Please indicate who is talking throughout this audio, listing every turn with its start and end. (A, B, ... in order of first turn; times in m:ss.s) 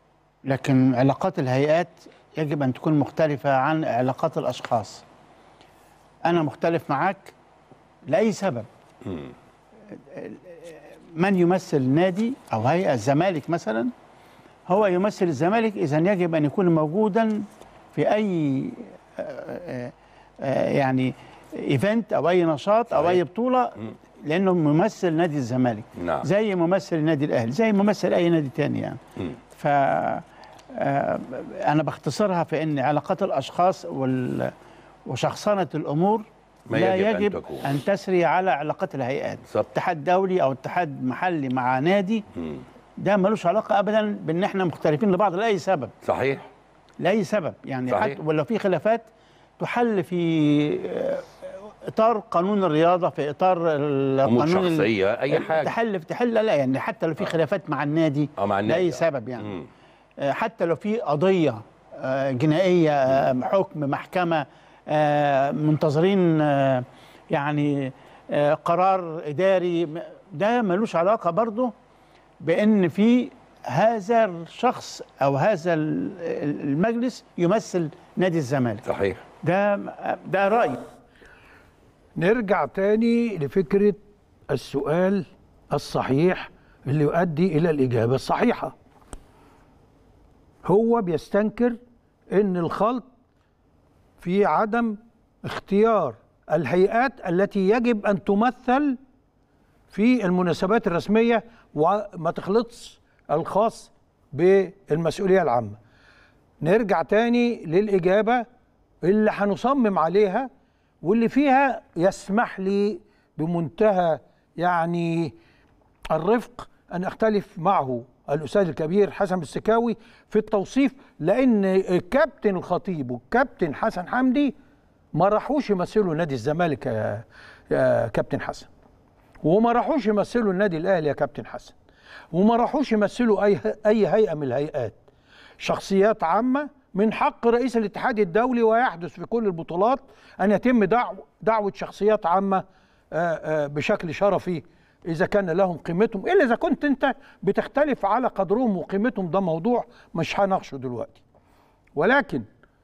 0:00.5-0:05.0 A
0:06.2-0:07.3 A
0:08.1-0:08.7 A
0:10.1-0:13.9 A
0:14.7-0:29.0 A
0:22.9-0:23.2 B
0:26.0-0:26.3 B
0:29.6-0:30.2 A
0:30.8-0:34.5 A
0:35.1-0:42.2 A
0:36.7-0:37.7 B
0:42.4-0:42.6 B
0:43.0-0:45.9 A
0:46.0-0:46.4 B
0:47.0-0:59.6 A
0:47.9-0:48.2 B
0:54.3-0:55.7 B
0:58.4-0:59.7 B
1:00.2-1:11.7 A
1:12.4-1:18.8 A
1:18.8-1:19.2 B
1:19.4-1:20.9 A
1:22.2-1:24.0 C
1:24.5-1:28.7 C
1:30.6-1:31.8 C
1:32.3-1:33.1 C
1:34.2-1:39.0 C
1:39.9-1:45.8 C
1:46.6-1:48.5 C
1:49.0-1:50.5 C
1:51.0-1:55.3 C
1:56.1-2:04.5 C
2:05.1-2:08.7 C
2:09.4-2:11.7 C
2:12.3-2:15.0 C
2:15.6-2:31.2 C
2:32.0-2:32.5 C